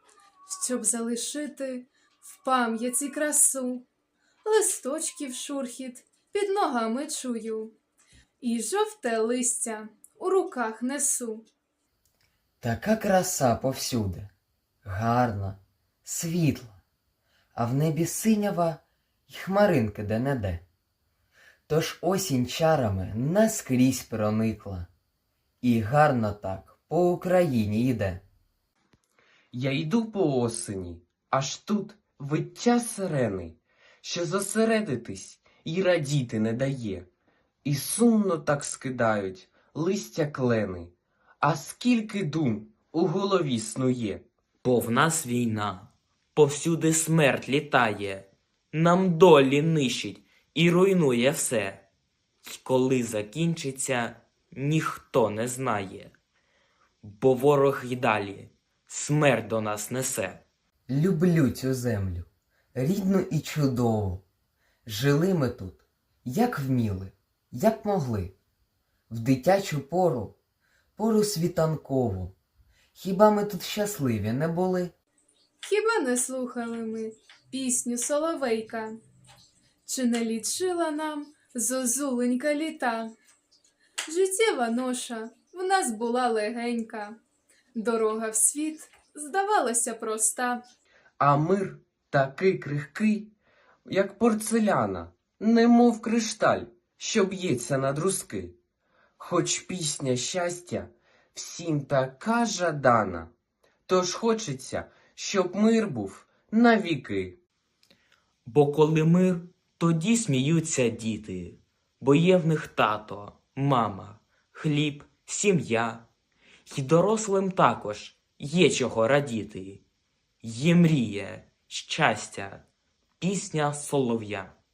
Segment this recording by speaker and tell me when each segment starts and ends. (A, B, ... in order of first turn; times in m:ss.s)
0:00.4-0:03.8 A
0:04.4-0:07.7 A
0:08.4-0:11.4 A
0:12.6-0:14.3 B
0:14.8-0:16.8 B
0:17.5-0:20.6 B
0:21.7-0:24.9 B
0:25.6-0:28.2 B
0:29.5-0:37.1 C
0:37.6-0:44.2 C
0:44.6-0:51.8 D
0:52.4-0:56.1 D
0:57.0-1:00.4 D
1:00.9-1:04.2 B
1:04.8-1:08.4 B
1:09.1-1:10.4 B
1:11.0-1:12.3 B
1:12.9-1:14.9 B
1:15.6-1:19.0 A
1:19.8-1:23.1 A
1:24.1-1:27.2 A
1:27.7-1:30.6 A
1:31.2-1:33.3 C
1:33.8-1:38.5 C
1:39.2-1:43.3 C
1:43.9-1:47.4 C
1:48.4-1:56.0 D
1:56.7-1:59.8 D
2:00.4-2:02.6 D
2:03.2-2:04.6 D